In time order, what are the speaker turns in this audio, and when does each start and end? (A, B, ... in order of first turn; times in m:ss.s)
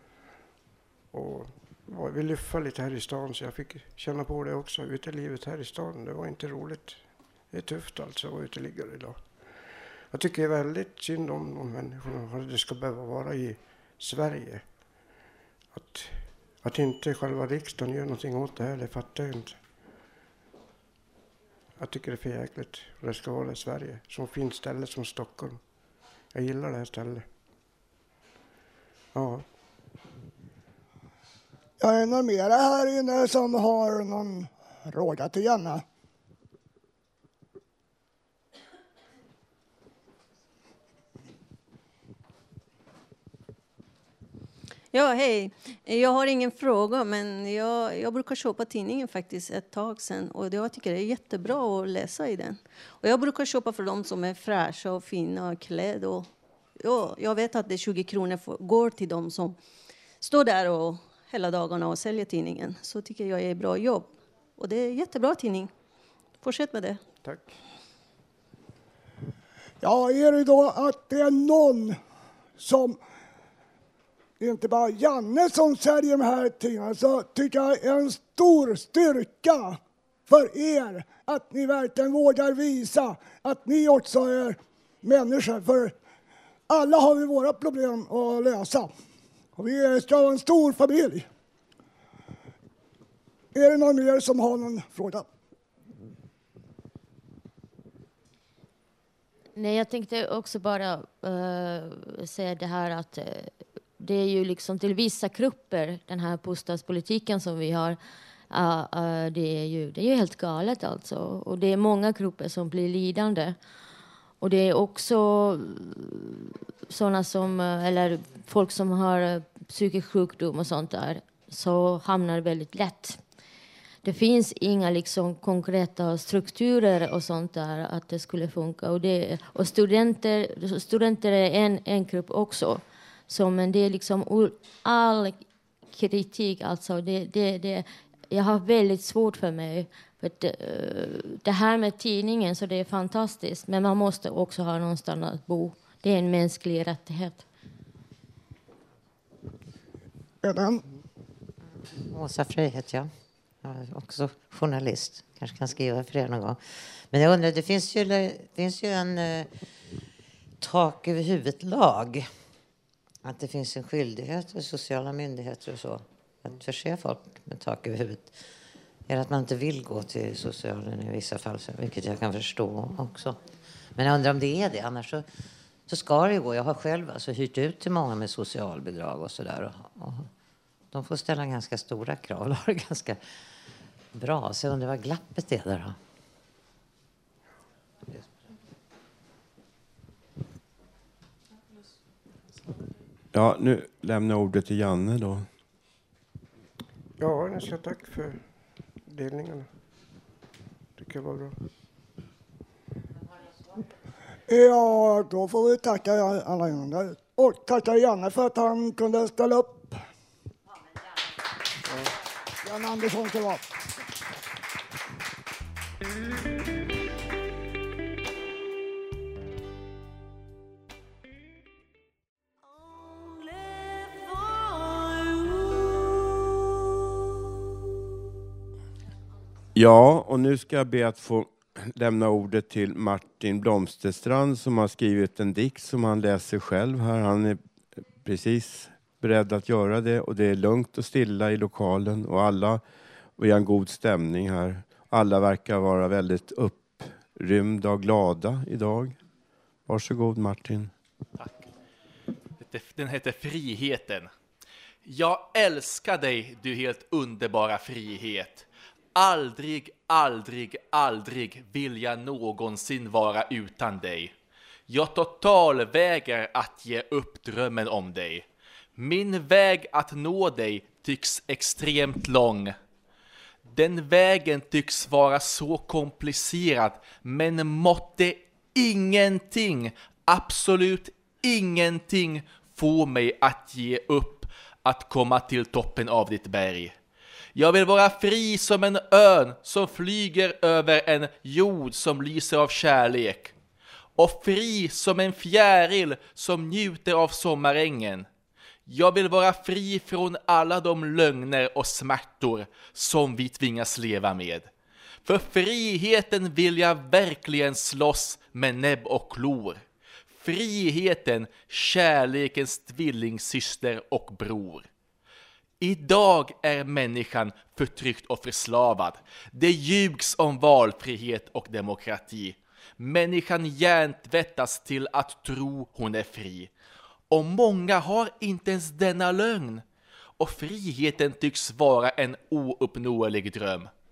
0:01.1-0:09.3 A
0:10.1-0:14.6 A
0:15.7-0:19.6 A
0:21.8-0:25.6 A
0:26.3-0:27.3 A
0:29.1-0:29.5 A
0:31.8-0:35.8 B
0:44.9-0:59.6 C
1:00.2-1:05.7 C
1:06.4-1:07.0 C
1:07.2-1:07.6 A
1:09.8-1:12.0 B
1:12.6-1:13.0 B
1:14.4-1:25.9 B
1:26.7-1:28.9 B
1:29.6-1:31.3 B
1:33.5-1:35.3 B
1:39.6-1:48.0 D
1:48.5-1:53.6 D
1:54.4-2:03.2 D
2:04.0-2:27.4 D
2:30.4-2:30.8 B
2:32.1-2:33.1 E
2:33.6-2:39.5 E
2:40.6-2:42.3 E
2:43.2-2:48.4 E
2:49.1-2:53.4 E
2:54.0-2:55.3 E
2:55.9-3:00.3 E
3:00.9-3:03.2 E
3:04.1-3:06.0 E
3:13.3-3:15.5 F
3:17.2-3:18.5 A
3:19.0-3:19.7 A
3:21.0-3:21.6 A
3:24.5-3:30.0 B
3:31.9-3:32.1 A
3:32.6-3:33.6 B
3:49.8-3:57.6 F
3:58.2-4:02.8 F
4:03.4-4:09.2 F
4:09.9-4:10.9 F
4:11.4-4:11.7 G
4:12.6-4:14.3 G
4:15.0-4:24.3 G
4:24.9-4:32.8 G
4:33.6-4:47.0 G
4:47.6-4:53.6 G
4:54.2-4:58.3 G
4:58.9-5:04.7 G
5:05.2-5:14.9 G
5:15.8-5:26.7 G
5:27.3-5:29.8 G
5:30.4-5:33.9 G